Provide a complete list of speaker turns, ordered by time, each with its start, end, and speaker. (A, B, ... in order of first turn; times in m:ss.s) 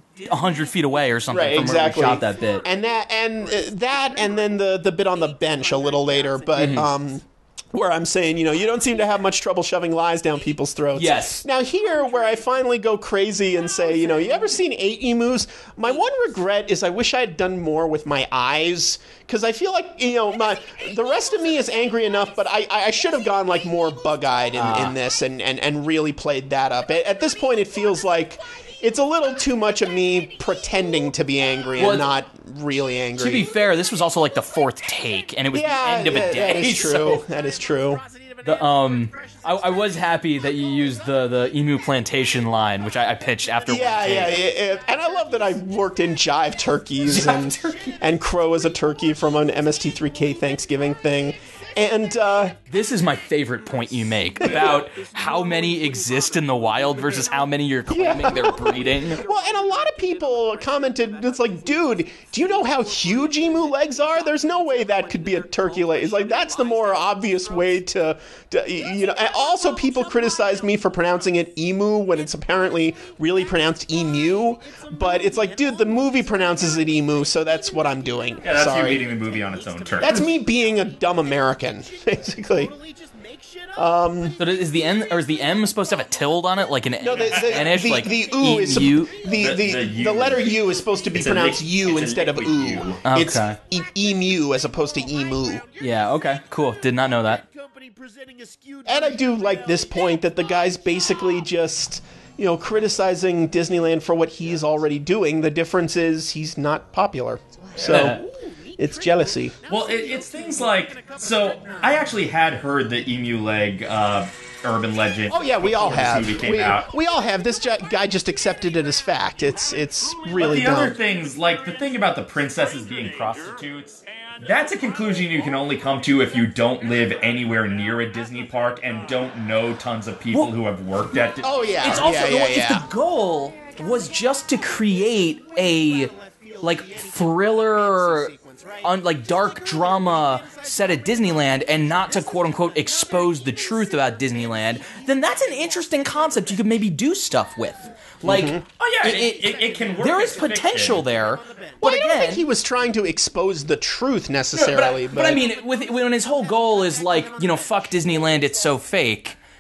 0:00.2-0:02.6 A
0:01.3-0:33.5 B
0:06.6-0:06.9 A
0:11.0-0:11.4 A
0:24.6-0:25.0 A
0:31.8-0:32.1 A
0:33.2-0:37.2 A
0:35.5-0:38.0 B
0:38.4-0:44.4 A
0:43.7-0:52.6 B
0:47.1-0:48.0 A
0:52.7-0:59.2 A
0:54.4-0:54.8 B
0:57.9-1:19.0 B
1:18.4-1:20.3 C
1:20.0-1:22.8 B
1:23.8-1:24.4 B
1:24.4-1:29.1 A
1:27.0-1:35.7 B
1:29.3-1:33.0 C
1:33.0-1:33.6 A
1:35.8-1:37.5 A
1:38.8-1:48.2 B
1:47.8-1:48.2 C
1:47.9-1:48.2 A
1:48.8-1:49.6 B
1:49.7-1:56.9 C
1:55.3-2:01.0 B
2:00.4-2:12.1 C
2:11.4-2:12.9 B
2:11.8-2:32.4 A
2:28.2-2:28.6 B
2:28.8-2:31.1 C
2:31.8-2:35.4 B
2:34.5-2:39.4 A